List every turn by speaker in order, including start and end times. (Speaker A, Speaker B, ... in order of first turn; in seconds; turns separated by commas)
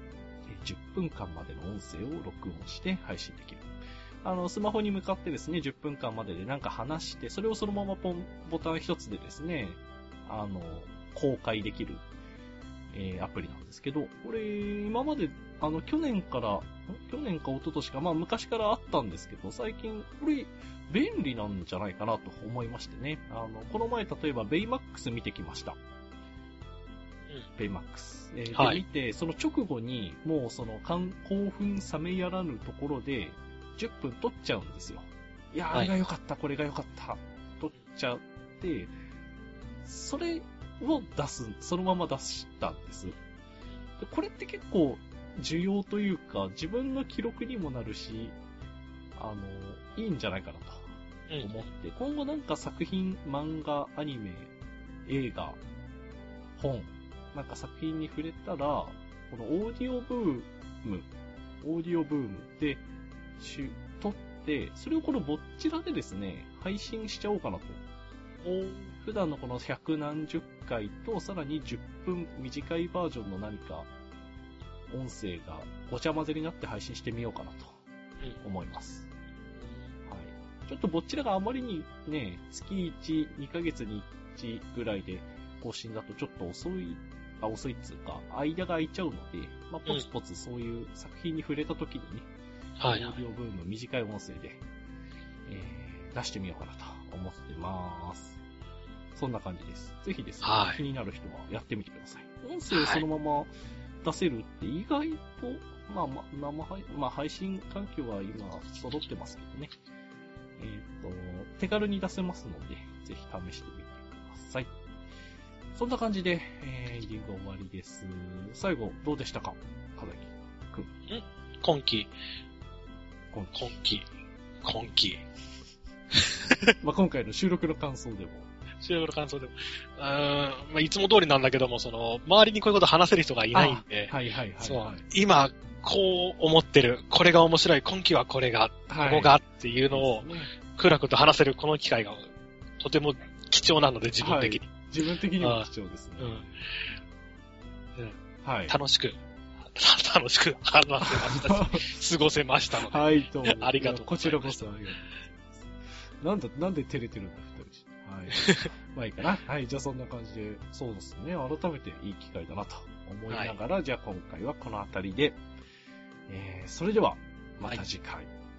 Speaker A: 0.5-3.7, Speaker A: 4.2-12.0, Speaker A: 12.9-25.8, Speaker A: 27.6-38.9, Speaker B: 28.5-28.8, Speaker A: 39.8-43.2, Speaker A: 44.0-48.4, Speaker A: 49.1-50.8, Speaker B: 51.3-51.7, Speaker A: 51.4-54.5, Speaker A: 55.0-55.6, Speaker A: 56.6-61.1, Speaker A: 61.6-62.8, Speaker A: 63.4-67.8, Speaker B: 68.4-68.9, Speaker A: 69.0-73.9, Speaker A: 74.9-77.7, Speaker A: 78.4-79.0, Speaker B: 79.6-79.9, Speaker A: 80.0-92.3, Speaker B: 92.8-93.2, Speaker A: 92.9-94.6, Speaker A: 95.5-98.4, Speaker A: 99.1-103.5, Speaker B: 100.4-100.8, Speaker B: 102.7-103.0, Speaker A: 104.0-109.7, Speaker A: 110.6-114.7, Speaker A: 115.7-120.9, Speaker B: 121.1-122.1, Speaker A: 123.3-123.6, Speaker B: 123.5-124.1, Speaker B: 124.6-125.2, Speaker B: 126.1-126.7, Speaker A: 126.8-128.5, Speaker B: 128.8-144.6, Speaker A: 133.5-135.0, Speaker A: 138.9-140.5, Speaker A: 144.2-147.1, Speaker B: 145.4-145.7, Speaker B: 146.2-146.9, Speaker B: 147.9-154.7, Speaker A: 148.4-148.8, Speaker A: 151.0-152.0, Speaker A: 152.8-155.7, Speaker A: 156.2-165.4, Speaker B: 158.4-158.7, Speaker B: 163.3-163.6, Speaker A: 166.3-168.3